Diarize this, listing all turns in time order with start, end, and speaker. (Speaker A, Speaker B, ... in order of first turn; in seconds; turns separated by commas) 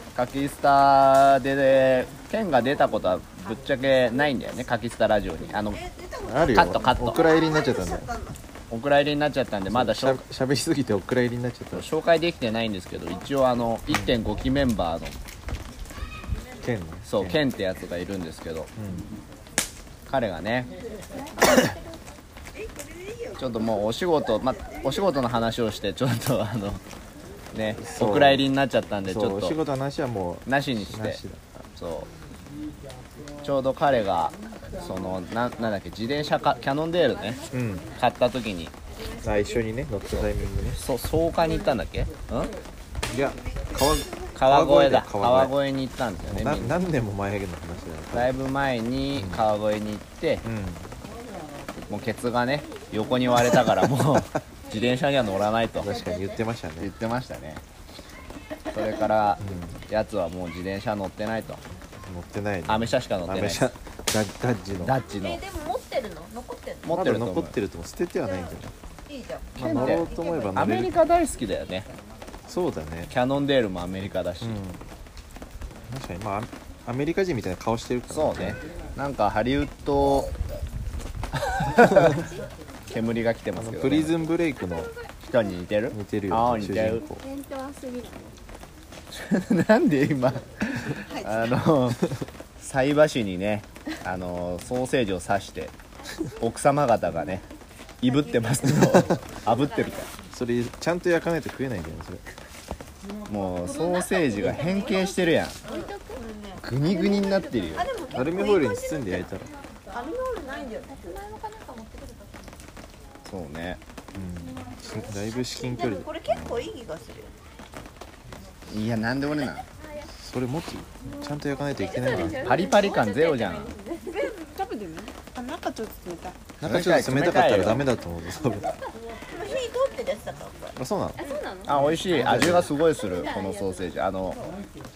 Speaker A: 0.1-5.8, Speaker B: 5.7-8.4, Speaker C: 6.2-8.1, Speaker A: 6.5-7.2, Speaker A: 8.7-10.2, Speaker C: 9.7-11.9, Speaker A: 11.7-15.2, Speaker C: 13.9-14.2, Speaker C: 16.6-17.4, Speaker A: 17.1-18.7, Speaker C: 18.8-19.1, Speaker A: 20.1-20.7, Speaker D: 21.1-22.0, Speaker B: 22.5-23.8, Speaker A: 23.4-26.8, Speaker A: 27.5-29.6, Speaker C: 27.8-28.5, Speaker C: 29.1-31.4, Speaker A: 30.5-31.2, Speaker A: 31.7-32.1, Speaker A: 33.4-37.4, Speaker D: 36.9-38.1, Speaker C: 37.5-37.9, Speaker A: 38.0-38.7, Speaker D: 39.1-39.5, Speaker C: 39.2-40.8, Speaker A: 40.8-42.5, Speaker C: 43.1-45.5, Speaker B: 43.1-44.4, Speaker A: 44.4-46.8, Speaker C: 46.3-48.3, Speaker A: 48.1-50.5, Speaker C: 49.1-49.5, Speaker C: 50.4-50.9, Speaker A: 51.7-55.9, Speaker C: 55.8-56.9, Speaker B: 55.8-56.4, Speaker A: 56.8-57.6, Speaker A: 58.7-61.6, Speaker C: 59.4-59.8, Speaker C: 62.0-65.0, Speaker A: 62.7-63.6, Speaker A: 64.8-65.4, Speaker B: 65.0-66.9, Speaker A: 66.8-67.6, Speaker C: 66.9-68.7, Speaker B: 68.2-70.6, Speaker C: 69.6-70.9, Speaker A: 69.6-71.9, Speaker C: 72.5-73.1, Speaker A: 73.1-74.6, Speaker C: 74.4-74.8, Speaker C: 75.9-78.6, Speaker A: 78.1-80.3, Speaker A: 81.6-82.2, Speaker C: 81.8-82.2, Speaker D: 82.0-82.4, Speaker A: 82.9-84.2, Speaker C: 83.5-84.9, Speaker D: 84.6-85.1, Speaker A: 85.2-87.0, Speaker C: 85.9-87.2, Speaker D: 87.0-88.3, Speaker A: 89.1-92.0, Speaker B: 91.0-91.6, Speaker A: 92.6-95.7, Speaker D: 96.0-96.5, Speaker A: 96.4-97.4, Speaker A: 98.0-100.1, Speaker D: 98.1-100.1, Speaker C: 98.7-99.2, Speaker C: 100.3-102.2, Speaker A: 103.3-105.6, Speaker D: 103.7-106.2, Speaker B: 105.6-107.2, Speaker A: 106.6-107.9, Speaker D: 106.8-108.4, Speaker B: 107.8-109.3, Speaker C: 108.1-109.5, Speaker B: 109.9-111.2, Speaker D: 110.9-112.5, Speaker A: 113.2-113.8, Speaker C: 114.1-116.7, Speaker B: 115.5-117.3, Speaker A: 118.7-119.6, Speaker D: 119.8-120.1, Speaker C: 120.2-122.7, Speaker D: 121.2-126.3, Speaker B: 121.8-122.2, Speaker A: 122.2-123.7, Speaker B: 124.1-125.8, Speaker C: 126.6-128.8, Speaker A: 126.6-127.8, Speaker B: 129.3-130.8, Speaker C: 130.8-131.2, Speaker D: 131.2-131.8, Speaker A: 131.7-134.4, Speaker C: 131.8-132.7, Speaker D: 133.0-134.5